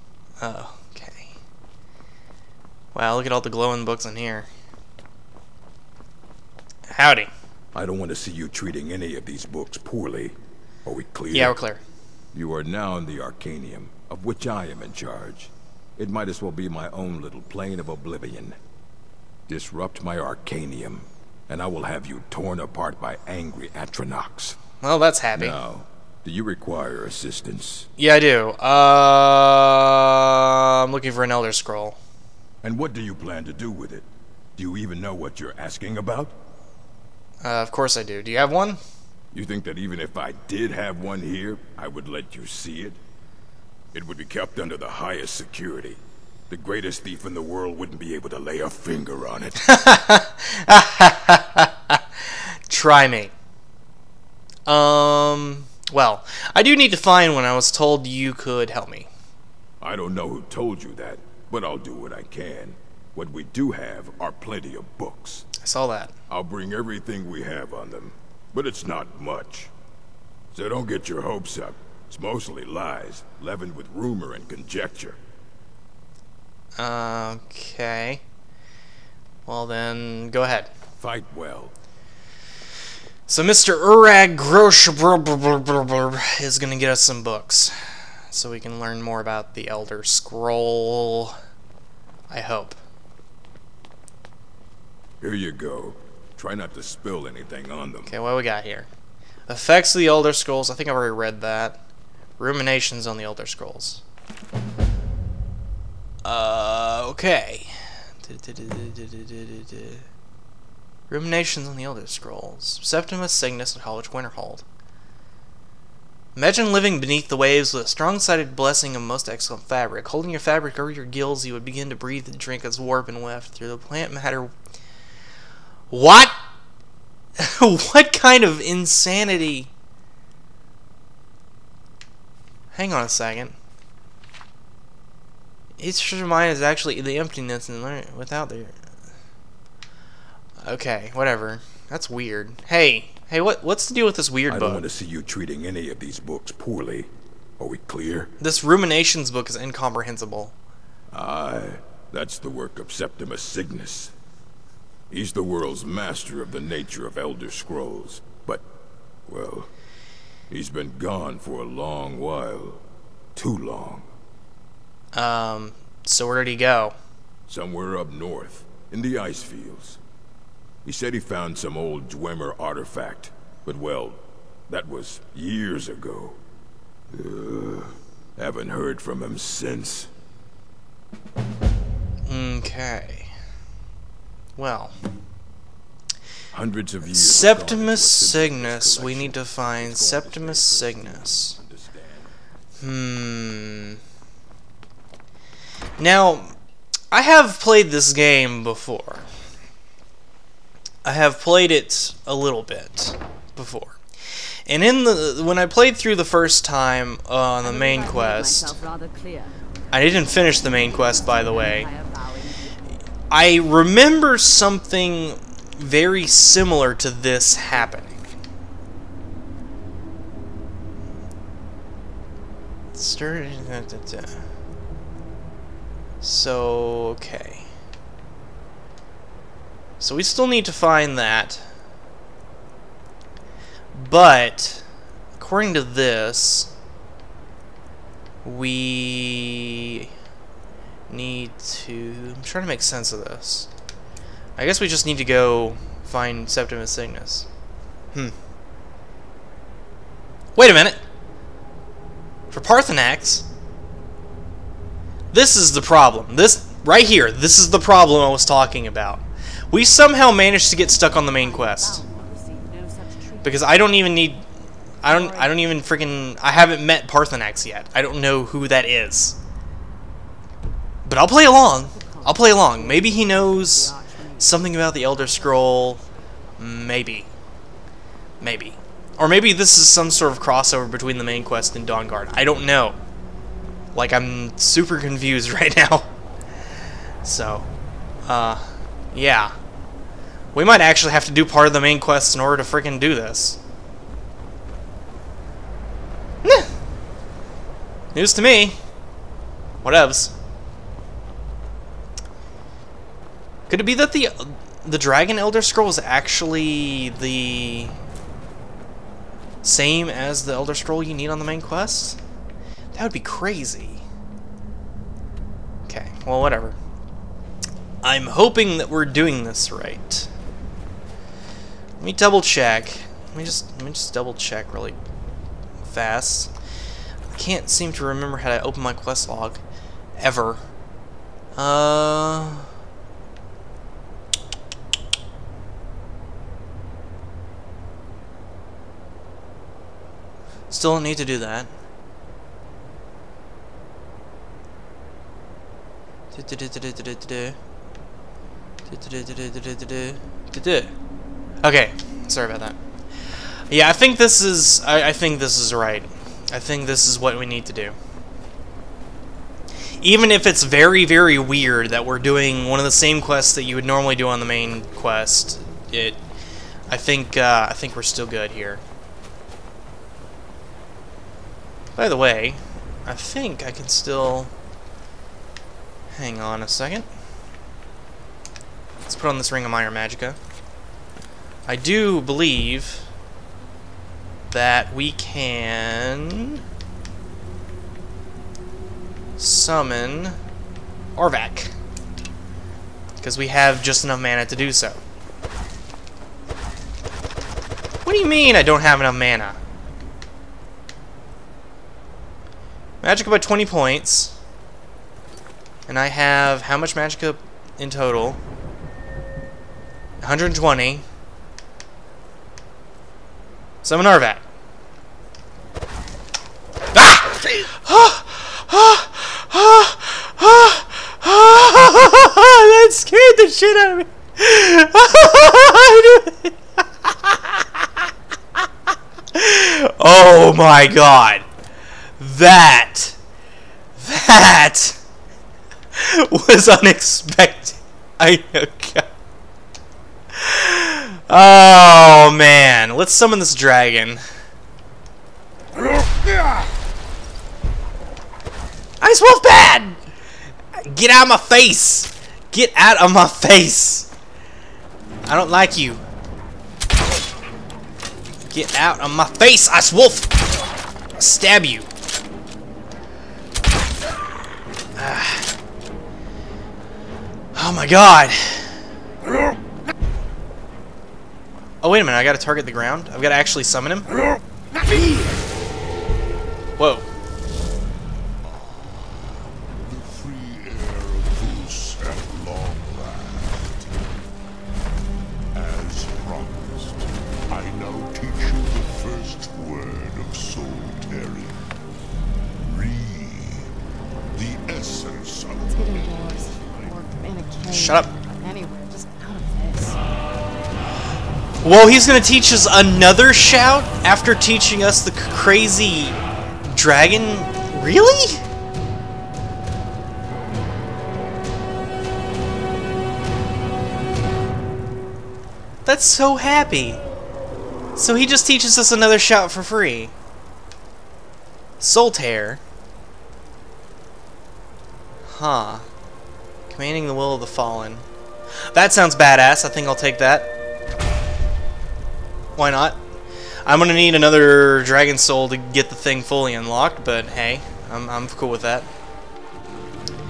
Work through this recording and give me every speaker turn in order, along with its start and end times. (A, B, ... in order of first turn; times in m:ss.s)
0:00.4-0:01.3 A
0:02.9-0:04.5 A
0:06.9-0:07.3 A
0:07.7-0:11.6 B
0:11.3-0:11.8 A
0:12.3-0:18.6 B
0:19.5-0:24.6 B
0:24.8-0:25.6 A
0:25.4-0:27.9 B
0:28.0-0:32.0 A
0:32.6-0:36.4 B
0:37.4-0:38.8 A
0:39.3-0:43.0 B
0:43.9-0:49.6 B
0:49.6-0:53.3 A
0:54.7-0:59.1 A
0:59.8-1:05.5 B
1:05.6-1:06.1 A
1:06.3-1:09.7 B
1:10.5-1:15.2 B
1:16.8-1:18.2 A
1:19.4-1:20.7 A
1:21.0-1:21.7 B
1:23.3-1:27.8 A
1:28.3-1:31.4 A
1:32.3-1:32.8 A
1:35.2-1:38.1 B
1:38.1-1:38.9 A
1:39.5-1:41.8 A
1:42.4-1:44.0 A
1:46.2-1:50.0 A
1:51.1-1:54.6 A
1:56.3-2:04.5 A
2:05.9-2:06.4 A
2:07.4-2:09.7 A
2:12.7-2:13.5 A
2:15.8-2:18.7 A
2:20.6-2:24.8 A
2:24.5-2:28.3 B
2:28.4-2:30.5 A
2:31.1-2:34.1 B
2:35.1-2:38.6 B
2:39.3-2:39.7 B
2:40.5-2:42.8 B
2:43.3-2:44.1 B
2:45.1-2:46.9 A
2:47.5-2:50.0 B
2:50.8-2:56.4 B
2:57.1-3:00.1 B
3:02.3-3:03.3 A
3:04.6-3:04.9 A
3:06.5-3:12.4 B
3:07.1-3:11.6 A
3:12.8-3:14.0 A
3:16.0-3:16.5 A
3:17.1-3:19.2 A
3:21.0-3:24.0 A
3:24.7-3:28.8 A
3:27.6-3:29.6 C
3:29.9-3:31.9 A
3:30.6-3:32.8 C
3:33.3-3:38.2 A
3:42.9-3:44.4 A
3:46.2-3:47.7 A
3:50.0-3:51.6 A
3:53.9-3:54.8 A
3:55.4-3:56.7 A
3:58.4-4:00.1 A
4:01.1-4:03.7 A
4:04.6-4:07.5 A
4:10.6-4:11.0 A
4:12.5-4:13.4 A
4:15.3-4:22.0 A
4:20.6-4:24.1 C
4:23.4-4:24.4 A
4:25.0-4:29.4 A
4:25.0-4:26.0 C
4:31.0-4:36.0 A
4:31.9-4:36.6 C
4:36.6-4:37.3 A
4:38.4-4:43.0 A
4:43.9-4:46.1 A
4:47.2-4:47.7 A
4:48.3-4:49.5 A
4:50.5-4:53.6 A
4:56.4-4:56.7 A
4:58.1-4:58.8 A
4:59.8-5:00.3 A
5:03.7-5:07.9 A
5:09.6-5:12.2 A
5:12.9-5:14.0 A
5:15.9-5:16.8 A
5:18.0-5:20.3 A
5:22.0-5:25.0 A
5:25.8-5:26.5 A
5:27.3-5:29.6 A
5:30.2-5:30.6 A
5:31.5-5:32.7 A
5:40.7-5:41.7 A
5:46.3-5:47.6 A
5:48.9-5:50.9 A
5:51.6-5:52.8 A
5:53.7-5:58.0 A
6:00.0-6:06.2 A
6:06.9-6:08.8 A
6:12.0-6:14.5 A
6:16.1-6:17.1 A
6:19.0-6:20.4 A
6:21.7-6:23.0 A
6:24.5-6:26.6 A
6:29.4-6:30.4 A
6:31.2-6:31.7 A
6:33.2-6:35.0 A
6:38.0-6:39.6 A
6:43.0-6:44.3 A
6:45.9-6:48.4 A
6:50.2-6:51.0 A
6:53.8-6:54.4 A
6:56.9-7:07.8 A
7:09.3-7:11.4 A
7:12.2-7:13.2 A
7:14.0-7:15.0 A
7:15.9-7:19.0 A
7:20.3-7:24.2 A
7:29.0-7:30.0 A
7:30.8-7:34.1 A
7:35.2-7:36.0 A
7:38.5-7:40.3 A
7:41.2-7:41.9 A
7:45.0-7:45.5 A
7:47.5-7:48.8 A
7:51.8-7:54.1 A
7:56.8-7:57.1 A
7:58.4-8:04.1 D
8:05.5-8:11.6 D
8:12.6-8:13.7 D
8:14.3-8:17.0 D
8:15.6-8:20.0 C
8:17.7-8:18.1 A
8:21.6-8:26.2 A
8:26.7-8:28.4 A
8:35.8-8:37.0 A
8:38.0-8:40.1 A
8:41.8-8:42.6 A
8:45.3-8:45.8 A
8:46.7-8:48.0 A
8:48.7-8:50.5 A
8:52.5-8:53.0 A
8:53.6-8:58.9 A